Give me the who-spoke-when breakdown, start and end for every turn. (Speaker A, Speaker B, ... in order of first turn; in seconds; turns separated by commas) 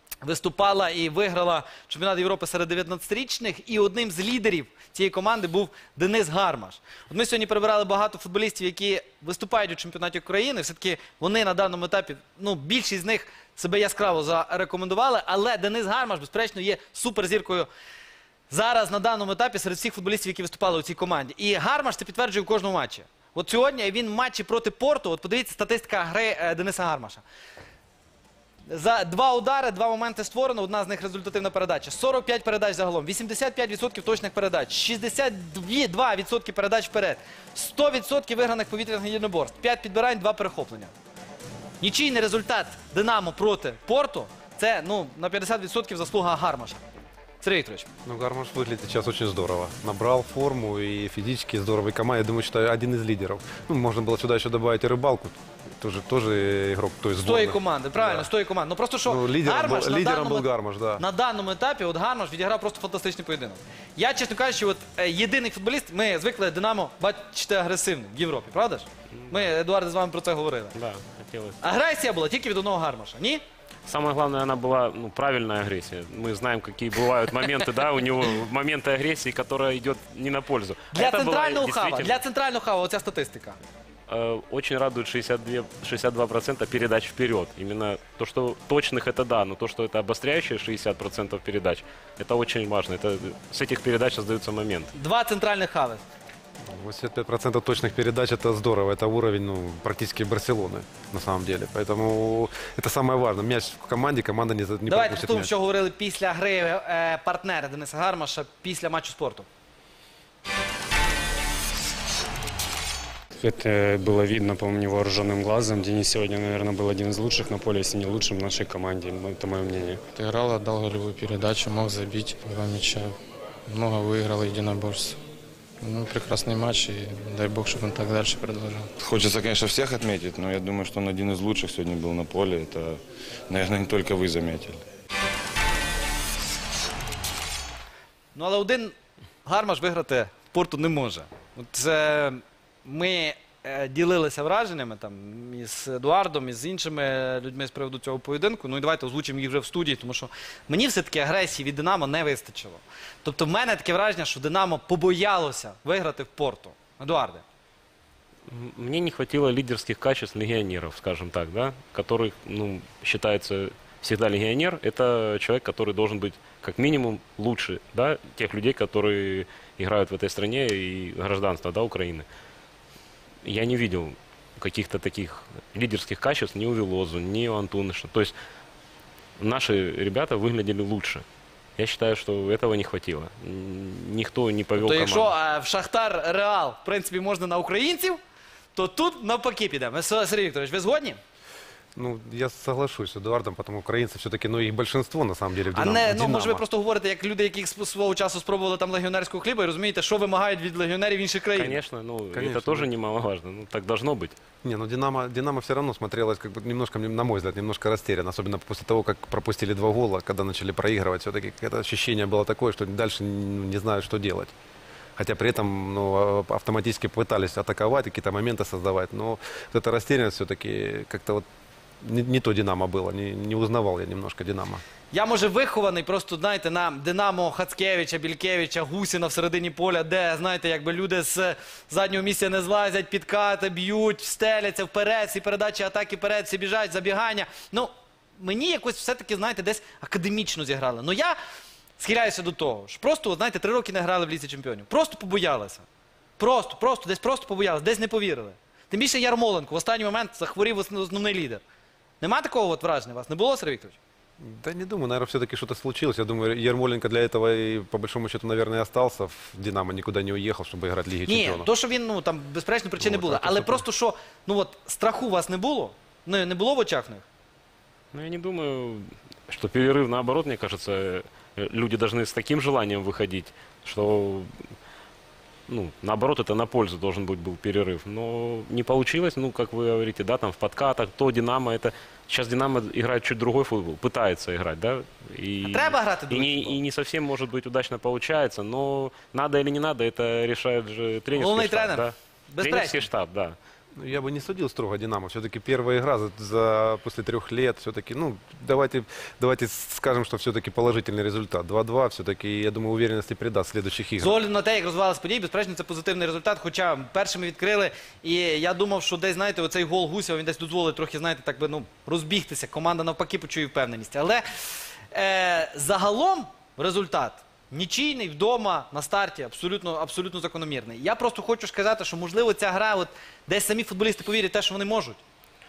Speaker A: 0.2-17.7, Speaker A: 18.5-27.2, Speaker A: 28.7-40.9, Speaker A: 41.8-46.8, Speaker A: 47.4-47.9, Speaker B: 48.0-58.3, Speaker A: 57.2-60.5, Speaker B: 59.1-61.0, Speaker A: 61.0-70.8, Speaker C: 70.8-71.6, Speaker A: 71.6-73.4, Speaker C: 73.9-82.2, Speaker A: 80.9-83.6, Speaker C: 84.1-94.9, Speaker A: 94.9-96.0, Speaker B: 96.6-105.5, Speaker A: 104.9-109.5, Speaker D: 113.4-120.1, Speaker E: 120.0-123.2, Speaker E: 123.7-125.2, Speaker E: 125.8-128.9, Speaker F: 129.0-134.8, Speaker A: 138.3-157.4, Speaker C: 158.5-172.3, Speaker C: 173.4-178.3, Speaker C: 179.4-181.2, Speaker C: 181.8-185.3, Speaker A: 184.8-188.2, Speaker A: 188.8-191.2, Speaker B: 191.9-196.6, Speaker A: 195.7-201.8, Speaker C: 201.6-204.3, Speaker B: 202.3-202.9, Speaker B: 204.6-214.5, Speaker B: 215.2-221.4, Speaker B: 222.0-224.8, Speaker A: 225.1-241.4, Speaker A: 242.0-245.8, Speaker A: 246.4-251.6, Speaker A: 252.2-254.0, Speaker B: 254.4-261.7, Speaker A: 261.3-267.2, Speaker B: 263.0-263.8, Speaker C: 268.1-274.5, Speaker C: 275.7-293.6, Speaker A: 285.6-286.8, Speaker A: 291.4-293.1, Speaker B: 294.0-304.4, Speaker A: 304.2-314.4, Speaker A: 315.1-325.2